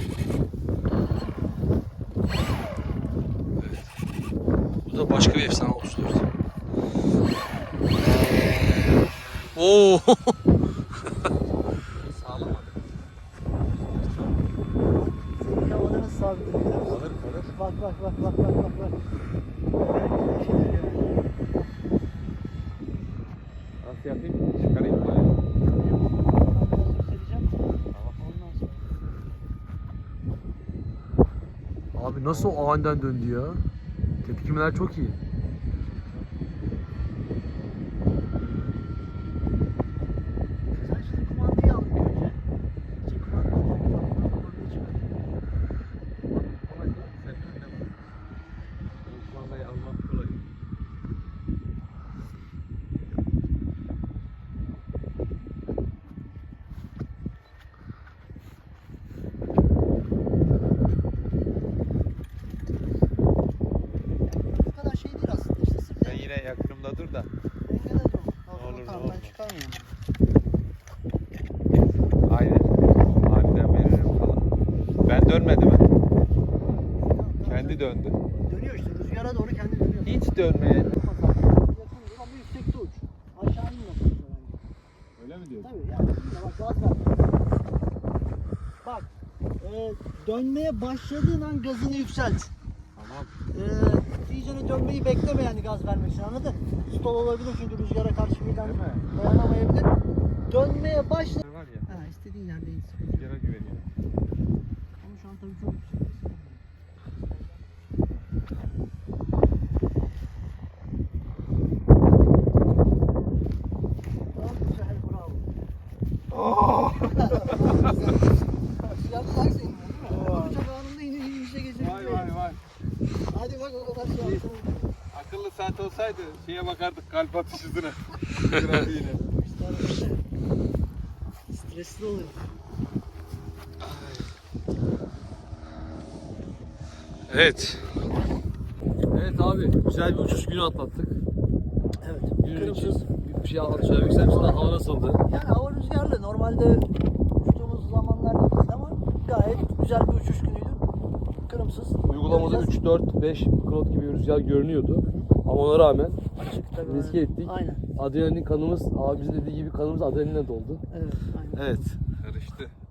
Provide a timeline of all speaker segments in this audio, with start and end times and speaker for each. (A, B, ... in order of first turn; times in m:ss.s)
0:04.8-0:06.3 A
0:08.1-0:09.9 B
0:09.6-0:10.4 A
0:11.9-0:13.0 B
0:13.7-0:14.5 B
0:15.0-0:16.9 C
0:16.8-0:17.6 B
0:17.6-0:19.0 C
0:19.8-0:21.3 C
0:23.8-0:25.4 B
0:25.8-0:27.6 C
0:27.9-0:28.2 B
0:28.2-0:28.8 C
0:32.0-0:33.6 A
0:32.3-0:32.7 B
0:34.2-0:35.2 A
0:38.5-0:38.8 B
0:40.8-0:42.4 C
0:43.1-0:45.2 C
0:46.3-0:47.9 B
0:49.0-0:50.4 B
1:04.3-1:06.2 C
1:06.0-1:07.3 B
1:07.6-1:10.0 C
1:08.5-1:09.4 B
1:12.3-1:15.9 B
1:17.0-1:20.3 C
1:17.4-1:18.2 B
1:20.0-1:21.0 B
1:20.9-1:24.5 C
1:25.2-1:25.7 B
1:25.6-1:27.1 C
1:29.6-1:32.5 C
1:33.0-1:33.4 B
1:33.5-1:39.9 C
1:38.5-1:39.1 B
1:40.5-1:43.3 C
1:41.3-1:41.9 B
1:43.1-1:43.9 B
1:45.0-1:46.6 C
1:54.3-1:55.5 C
1:56.5-1:58.0 B
1:57.1-1:58.2 C
1:58.9-2:02.4 C
2:01.8-2:02.6 B
2:03.3-2:04.9 C
2:05.1-2:09.2 B
2:09.3-2:10.2 C
2:11.5-2:12.4 C
2:13.8-2:14.3 B
2:17.3-2:17.9 A
2:19.1-2:21.2 A
2:22.0-2:23.0 C
2:22.4-2:25.2 A
2:23.9-2:24.7 C
2:25.3-2:30.8 C
2:31.5-2:32.8 C
2:32.0-2:36.2 A
2:36.5-2:37.8 C
2:36.8-2:40.8 A
2:40.9-2:41.8 C
2:41.5-2:42.0 A
2:42.2-2:42.7 B